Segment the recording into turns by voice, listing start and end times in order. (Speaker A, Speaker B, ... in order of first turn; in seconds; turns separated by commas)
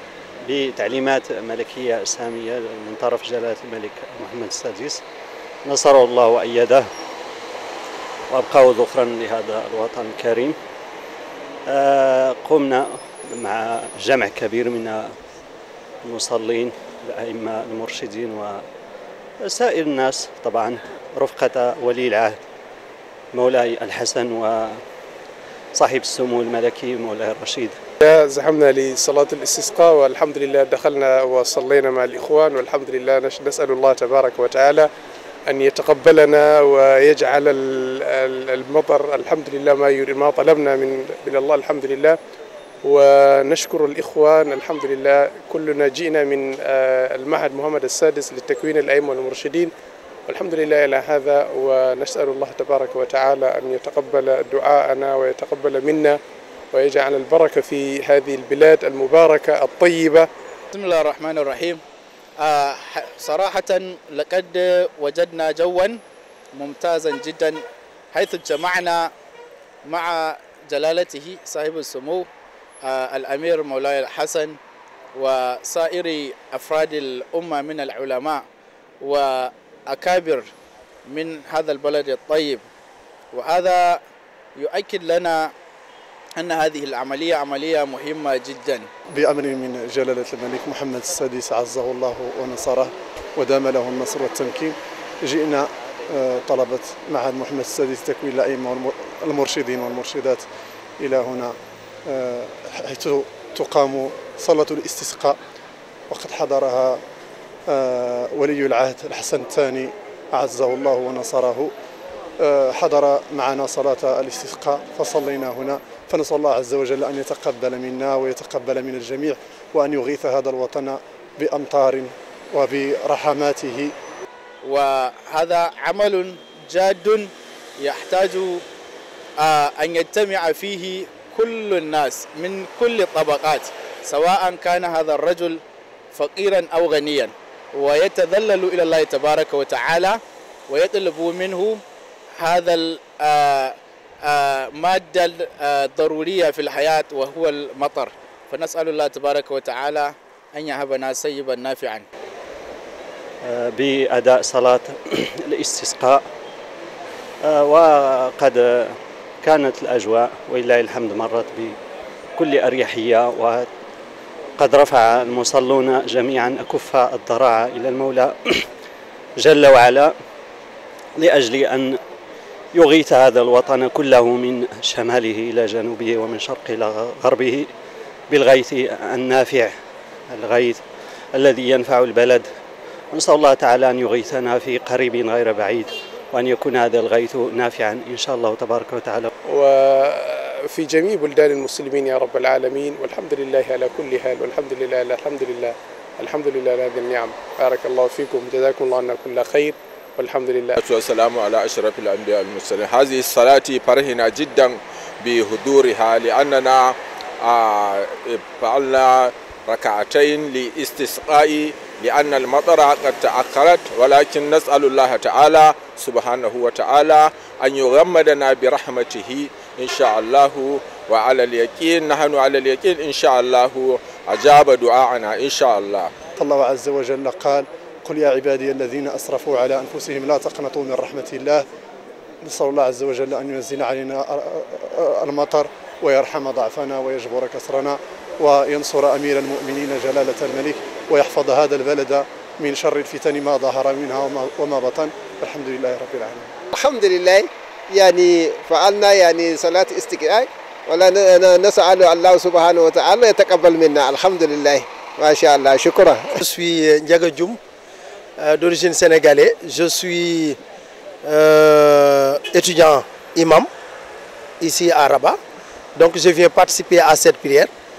Speaker A: 0.4-5.0, Speaker A: 5.6-6.9, Speaker A: 8.3-10.6, Speaker A: 11.7-15.1, Speaker A: 16.0-18.6, Speaker A: 19.4-22.4, Speaker A: 23.3-24.8, Speaker A: 25.7-27.8, Speaker B: 28.0-34.9, Speaker B: 35.5-42.2, Speaker B: 42.8-49.7, Speaker B: 50.3-56.2, Speaker B: 56.7-60.3, Speaker C: 60.7-61.8, Speaker C: 62.4-66.0, Speaker C: 66.5-69.1, Speaker C: 69.8-72.3, Speaker C: 72.8-74.6, Speaker C: 75.1-78.4, Speaker C: 79.0-80.5, Speaker C: 81.0-82.6, Speaker C: 83.3-84.0, Speaker C: 84.6-85.5, Speaker C: 86.4-88.9, Speaker D: 89.1-100.4, Speaker D: 101.0-101.5, Speaker D: 102.0-105.4, Speaker D: 106.1-107.0, Speaker D: 107.7-111.7, Speaker D: 112.4-123.9, Speaker C: 124.6-128.6, Speaker C: 129.4-135.6, Speaker C: 136.1-141.8, Speaker C: 142.4-152.1, Speaker A: 153.4-156.2, Speaker A: 157.4-161.8, Speaker A: 162.3-163.7, Speaker A: 164.6-168.7, Speaker A: 169.4-170.1, Speaker A: 171.2-172.0, Speaker A: 172.7-177.7, Speaker A: 178.3-179.7, Speaker A: 180.3-180.8, Speaker A: 181.3-182.5, Speaker A: 183.1-189.3, Speaker B: 189.5-200.8, Speaker E: 200.8-226.1, Speaker D: 226.4-231.6, Speaker D: 232.4-246.6, Speaker F: 246.7-256.4, Speaker G: 256.4-257.6, Speaker G: 258.4-260.6, Speaker G: 261.2-263.7, Speaker G: 264.6-265.4, Speaker G: 265.9-267.7